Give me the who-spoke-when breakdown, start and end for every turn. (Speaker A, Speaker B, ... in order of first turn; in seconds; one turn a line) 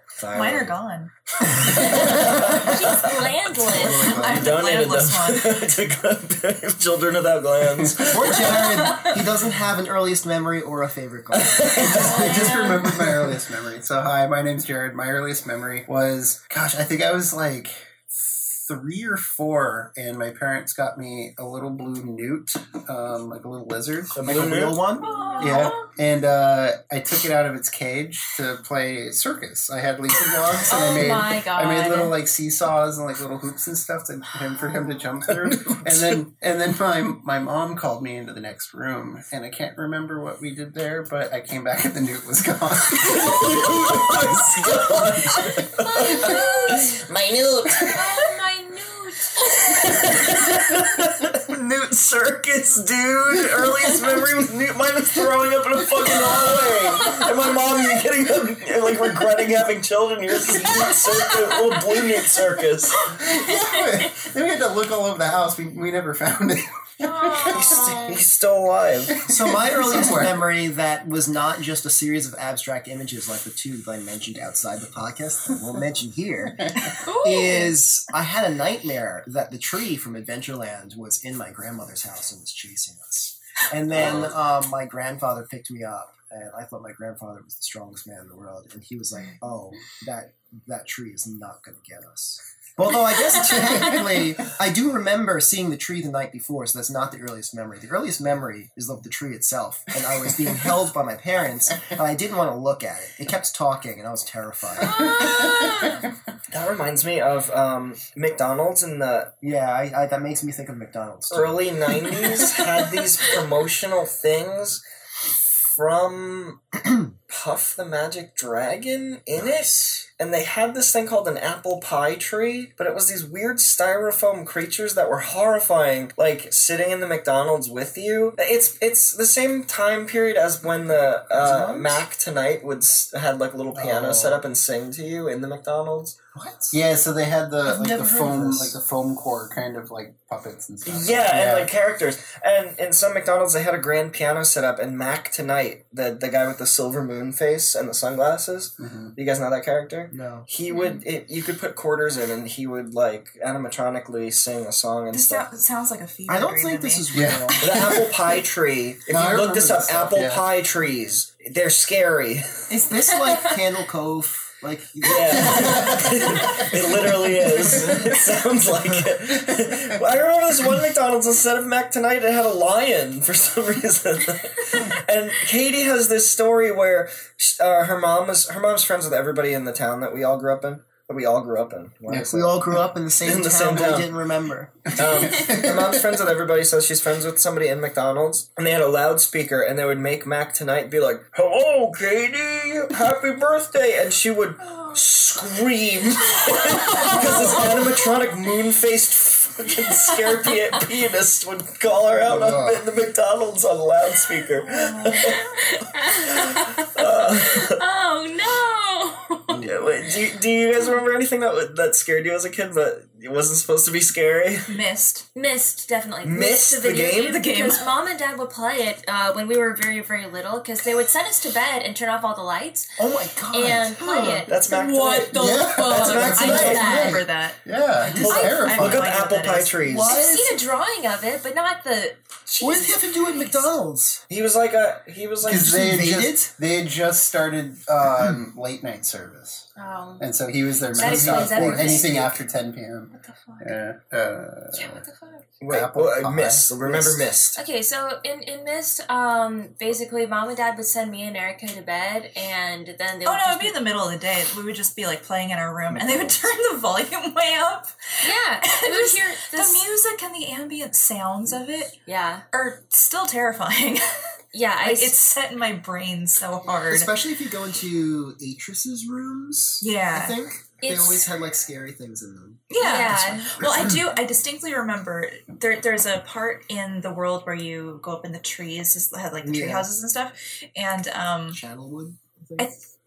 Speaker A: 0.2-0.8
Speaker B: 0.3-1.1
Speaker A: 1.4-9.0
Speaker C: 1.7-2.6
Speaker D: 1.8-4.1
Speaker C: 3.5-4.6
Speaker B: 3.8-5.7
Speaker E: 8.1-12.5
Speaker A: 11.3-12.4
Speaker D: 11.8-12.8
Speaker C: 12.0-24.3
Speaker A: 24.1-24.8
Speaker E: 24.3-25.3
Speaker D: 25.0-25.9
Speaker C: 25.4-45.5
Speaker D: 30.7-32.1
Speaker A: 35.6-36.2
Speaker A: 43.0-48.3
Speaker D: 45.8-47.0
Speaker D: 47.9-50.2
Speaker A: 49.5-63.1
Speaker D: 57.0-57.5
Speaker C: 63.0-68.0
Speaker D: 63.2-64.1
Speaker D: 67.0-68.2
Speaker A: 67.3-69.2
Speaker C: 69.1-70.4
Speaker E: 69.2-105.2
Speaker D: 77.0-77.7
Speaker A: 83.9-84.3
Speaker C: 93.5-94.0
Speaker D: 104.8-106.0
Speaker C: 105.3-106.0
Speaker A: 106.5-109.3
Speaker E: 109.4-112.6
Speaker A: 111.3-116.6
Speaker A: 117.3-136.2
Speaker E: 131.4-132.0
Speaker C: 133.7-134.4
Speaker E: 136.3-136.8
Speaker C: 136.7-141.7
Speaker E: 137.7-138.7
Speaker A: 140.9-155.5
Speaker C: 148.8-149.1
Speaker E: 150.1-150.5
Speaker D: 150.7-151.0
Speaker B: 155.1-157.3
Speaker E: 156.3-157.6
Speaker C: 157.1-158.1
Speaker A: 157.6-162.6
Speaker C: 159.1-160.4
Speaker E: 162.7-167.0
Speaker A: 165.1-184.1
Speaker C: 165.3-168.2
Speaker C: 168.9-170.0
Speaker C: 182.1-182.5
Speaker E: 182.2-184.9
Speaker C: 184.9-186.2
Speaker A: 184.9-207.8
Speaker D: 194.7-194.9
Speaker D: 196.5-198.3
Speaker C: 202.2-202.8
Speaker D: 204.9-209.7
Speaker A: 209.6-214.7
Speaker C: 209.6-209.9
Speaker B: 214.7-215.3
Speaker D: 215.3-224.7
Speaker A: 216.2-217.4
Speaker B: 217.2-217.9
Speaker E: 223.0-224.5
Speaker B: 224.2-230.5
Speaker A: 224.5-227.2
Speaker C: 225.3-229.1
Speaker D: 225.4-227.2
Speaker A: 228.2-230.2
Speaker D: 228.3-228.7
Speaker E: 230.0-230.4
Speaker D: 230.0-233.0
Speaker E: 232.6-234.2
Speaker A: 234.3-235.8
Speaker C: 235.4-239.7
Speaker E: 235.5-236.5
Speaker D: 239.8-240.3
Speaker C: 240.2-245.0
Speaker D: 240.9-242.4
Speaker E: 241.1-242.0
Speaker D: 243.1-243.8
Speaker D: 244.7-245.5
Speaker A: 245.6-247.6
Speaker C: 245.7-247.3
Speaker D: 247.6-253.8
Speaker B: 253.2-262.0
Speaker C: 255.9-256.4
Speaker D: 258.2-259.8
Speaker D: 262.1-262.4
Speaker B: 262.5-264.0
Speaker D: 264.5-265.1
Speaker B: 264.8-267.1
Speaker E: 266.9-272.6
Speaker B: 269.8-270.4
Speaker D: 270.8-271.3
Speaker B: 272.7-281.6
Speaker D: 272.8-273.6
Speaker E: 279.4-279.9
Speaker E: 281.5-282.7
Speaker B: 282.6-282.9